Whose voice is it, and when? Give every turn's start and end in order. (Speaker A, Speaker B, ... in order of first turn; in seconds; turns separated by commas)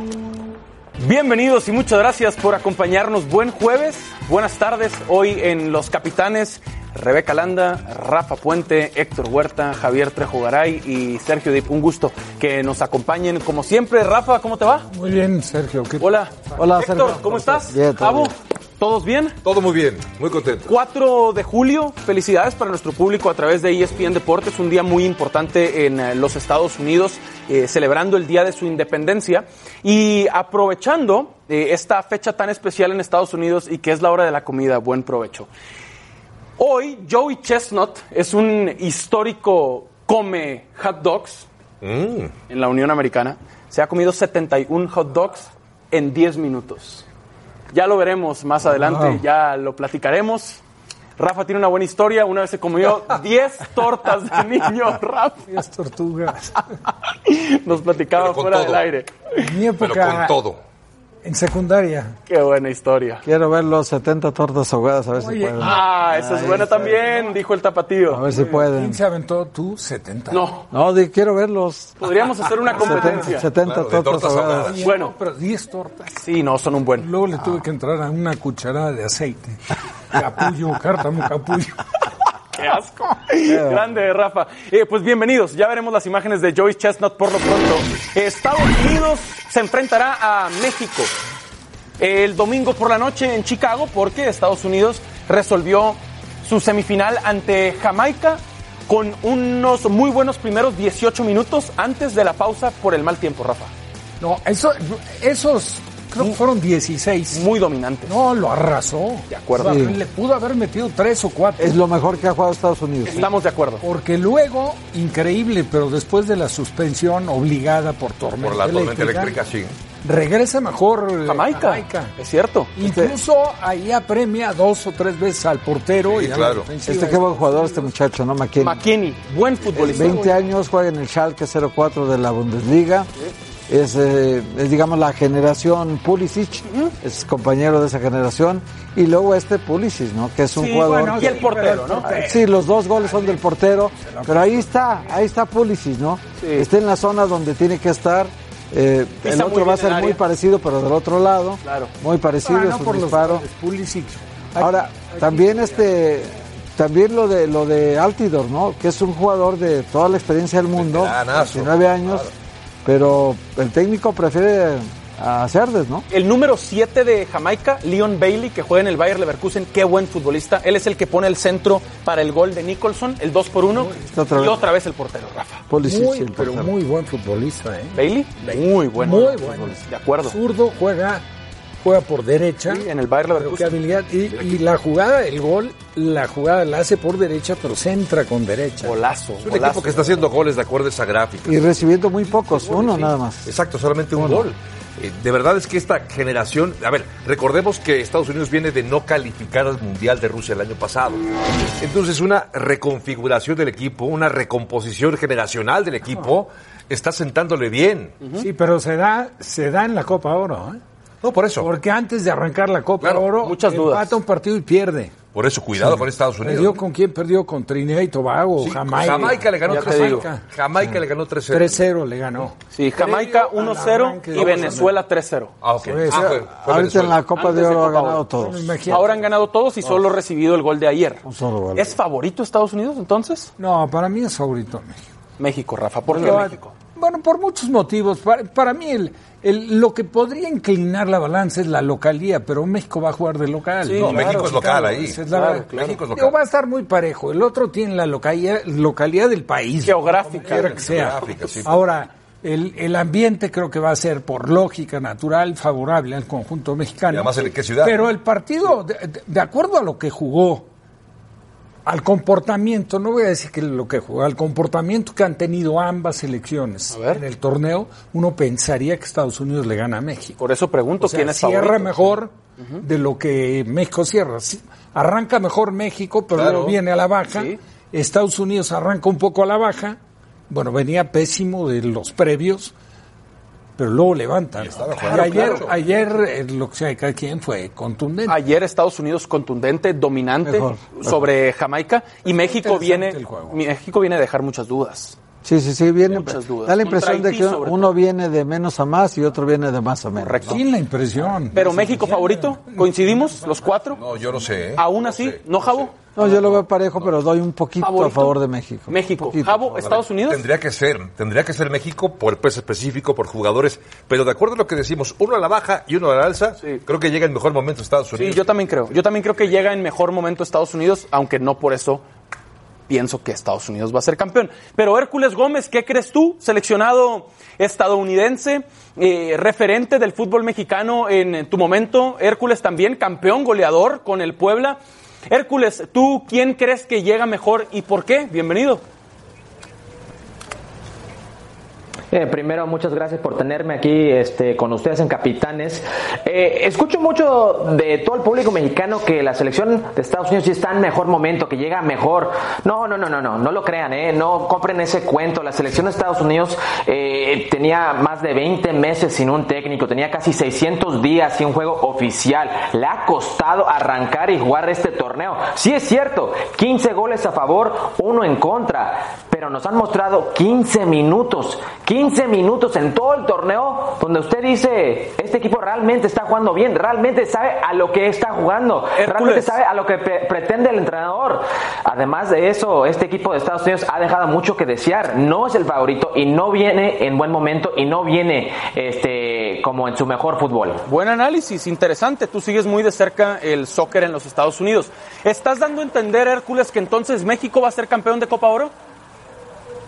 Speaker A: 1.0-14.9, Speaker B: 14.9-16.2, Speaker A: 16.0-19.4, Speaker C: 16.6-18.3, Speaker D: 19.4-20.7, Speaker A: 20.7-35.5, Speaker A: 36.6-41.5, Speaker D: 41.8-42.3, Speaker A: 42.5-47.1, Speaker A: 47.7-50.6, Speaker A: 51.2-55.5, Speaker B: 55.5-56.6, Speaker A: 57.2-59.5, Speaker D: 58.1-58.9, Speaker B: 59.4-60.4, Speaker D: 59.8-60.6, Speaker B: 61.2-62.2, Speaker A: 62.3-63.2, Speaker C: 63.2-67.0, Speaker A: 65.6-68.5, Speaker C: 68.1-69.0, Speaker B: 68.7-70.4, Speaker A: 70.3-70.7, Speaker C: 70.7-72.0, Speaker A: 72.0-73.4, Speaker C: 72.7-74.7, Speaker B: 72.9-73.2, Speaker D: 73.6-74.8, Speaker B: 74.7-76.2, Speaker A: 74.8-75.1, Speaker A: 76.2-77.1, Speaker B: 77.0-79.6, Speaker B: 80.1-81.8, Speaker A: 82.5-91.1, Speaker C: 83.5-83.9, Speaker A: 92.0-103.7, Speaker B: 104.2-107.5, Speaker A: 107.3-108.1, Speaker B: 108.1-111.8, Speaker A: 109.3-109.8, Speaker C: 109.6-110.0, Speaker C: 111.6-113.3, Speaker A: 113.1-113.8, Speaker B: 113.8-119.4, Speaker D: 118.4-119.8, Speaker B: 120.0-122.1, Speaker A: 121.3-122.7, Speaker B: 122.8-127.9, Speaker C: 122.8-123.2, Speaker D: 126.0-126.7, Speaker C: 126.8-128.8, Speaker A: 128.6-130.4, Speaker C: 129.8-133.1, Speaker C: 133.7-141.5, Speaker A: 140.6-142.1, Speaker B: 140.6-143.4, Speaker C: 142.1-153.5, Speaker B: 144.0-144.7, Speaker A: 146.4-146.7, Speaker A: 149.2-150.2, Speaker A: 151.7-151.9, Speaker B: 152.4-155.6, Speaker C: 154.6-162.3, Speaker D: 160.8-162.3, Speaker C: 162.8-166.1, Speaker A: 166.1-175.6, Speaker B: 173.8-174.0, Speaker C: 174.1-174.6, Speaker C: 175.7-176.7, Speaker B: 175.8-178.0, Speaker A: 177.9-180.4, Speaker B: 179.0-181.2, Speaker B: 181.8-189.0, Speaker A: 182.7-183.8, Speaker A: 188.8-190.3, Speaker D: 189.4-191.7, Speaker C: 191.5-193.5, Speaker A: 192.6-193.1, Speaker D: 193.4-201.2, Speaker C: 194.2-194.4, Speaker D: 201.8-208.2, Speaker B: 208.4-210.8, Speaker D: 211.2-211.7, Speaker B: 211.6-215.2, Speaker D: 213.0-213.3, Speaker A: 213.4-214.2, Speaker D: 215.3-216.8, Speaker B: 215.8-221.0, Speaker D: 218.6-221.8, Speaker A: 219.7-220.3, Speaker B: 221.5-225.0, Speaker A: 222.7-225.5, Speaker D: 225.6-227.3, Speaker C: 225.9-228.8, Speaker B: 225.9-226.3, Speaker A: 227.4-228.3, Speaker B: 228.4-229.2, Speaker A: 228.9-231.2, Speaker C: 231.2-232.0, Speaker A: 231.8-233.5, Speaker B: 233.6-235.0, Speaker A: 235.4-236.7, Speaker C: 236.1-236.4, Speaker B: 236.1-260.7, Speaker A: 243.8-244.5, Speaker D: 243.9-246.4, Speaker A: 245.3-246.0, Speaker A: 249.8-250.8, Speaker D: 250.5-251.9, Speaker D: 257.1-258.1, Speaker B: 261.9-270.4, Speaker A: 266.9-267.2, Speaker A: 270.4-272.8, Speaker B: 271.0-280.0, Speaker D: 276.3-276.8, Speaker A: 277.3-277.6, Speaker B: 280.5-282.7, Speaker B: 283.8-288.4, Speaker D: 284.6-285.8, Speaker A: 285.1-285.7, Speaker A: 288.3-295.2, Speaker C: 290.4-291.1, Speaker B: 292.6-293.6, Speaker C: 295.4-300.6, Speaker A: 296.1-297.9, Speaker A: 300.2-300.6, Speaker B: 300.5-303.5, Speaker A: 301.5-304.0, Speaker D: 303.9-305.8, Speaker A: 304.8-306.0, Speaker C: 306.2-309.8, Speaker A: 307.8-308.4, Speaker A: 308.9-310.4, Speaker D: 309.8-318.5, Speaker A: 318.1-322.0, Speaker A: 322.9-338.8, Speaker E: 342.1-390.8, Speaker A: 379.0-379.6, Speaker A: 390.9-398.7